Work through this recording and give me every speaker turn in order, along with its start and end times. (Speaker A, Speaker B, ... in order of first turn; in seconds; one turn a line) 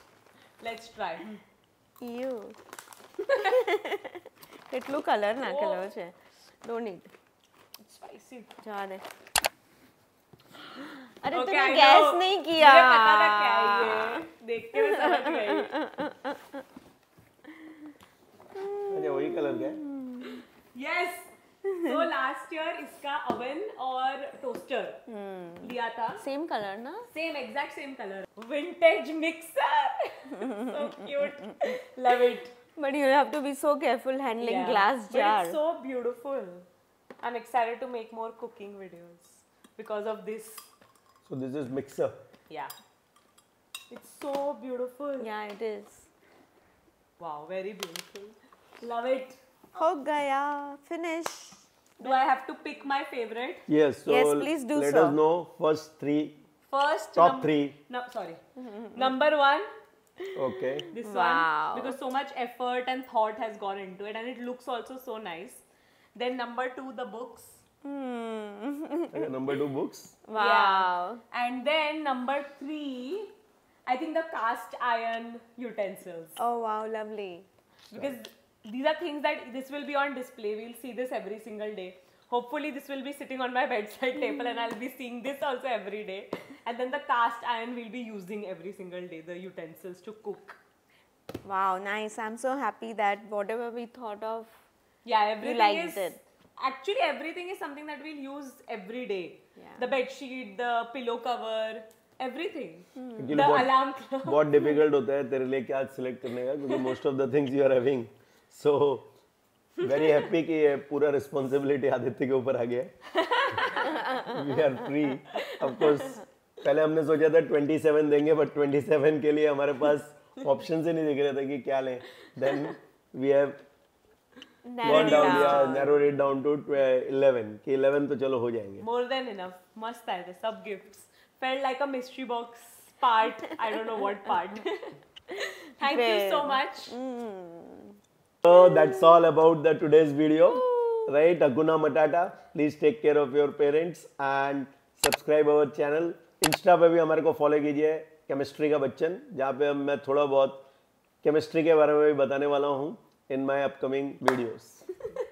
Speaker A: 0.6-1.4
Speaker B: 2.0-2.5
Speaker A: 3.2-3.6
Speaker B: 3.4-7.1
Speaker A: 5.4-5.9
Speaker A: 7.8-8.5
Speaker B: 8.6-9.0
Speaker B: 10.8-14.2
Speaker A: 11.3-15.8
Speaker B: 14.8-16.6
Speaker B: 17.5-17.8
Speaker B: 18.5-20.4
Speaker C: 18.9-19.8
Speaker A: 20.7-25.0
Speaker B: 21.7-22.0
Speaker B: 25.1-27.1
Speaker A: 25.6-26.2
Speaker A: 27.1-32.5
Speaker B: 30.4-31.8
Speaker B: 32.8-35.6
Speaker A: 34.4-36.7
Speaker A: 37.2-40.7
Speaker C: 41.2-42.1
Speaker A: 43.9-45.3
Speaker B: 45.2-46.1
Speaker A: 47.2-49.4
Speaker B: 49.8-52.2
Speaker A: 52.0-53.6
Speaker C: 53.7-56.4
Speaker B: 54.0-55.2
Speaker A: 56.7-58.4
Speaker C: 57.1-57.8
Speaker B: 58.6-59.1
Speaker A: 58.9-59.7
Speaker B: 60.2-62.0
Speaker C: 60.3-60.9
Speaker A: 60.9-67.6
Speaker B: 67.8-69.3
Speaker C: 69.1-70.2
Speaker B: 70.3-71.2
Speaker A: 70.3-73.3
Speaker A: 73.9-76.4
Speaker B: 76.4-77.5
Speaker A: 77.9-90.6
Speaker B: 84.2-84.7
Speaker B: 91.4-94.5
Speaker A: 95.0-104.7
Speaker B: 95.4-96.2
Speaker B: 99.6-99.9
Speaker B: 103.0-103.5
Speaker C: 103.2-109.1
Speaker C: 109.8-112.9
Speaker A: 113.1-114.0
Speaker B: 113.7-114.9
Speaker C: 114.2-123.6
Speaker A: 115.3-116.2
Speaker B: 124.6-126.0
Speaker C: 124.8-128.8
Speaker A: 124.8-125.8
Speaker A: 128.8-136.9
Speaker B: 135.4-139.2
Speaker C: 138.4-150.6
Speaker B: 140.5-141.1
Speaker C: 151.2-154.8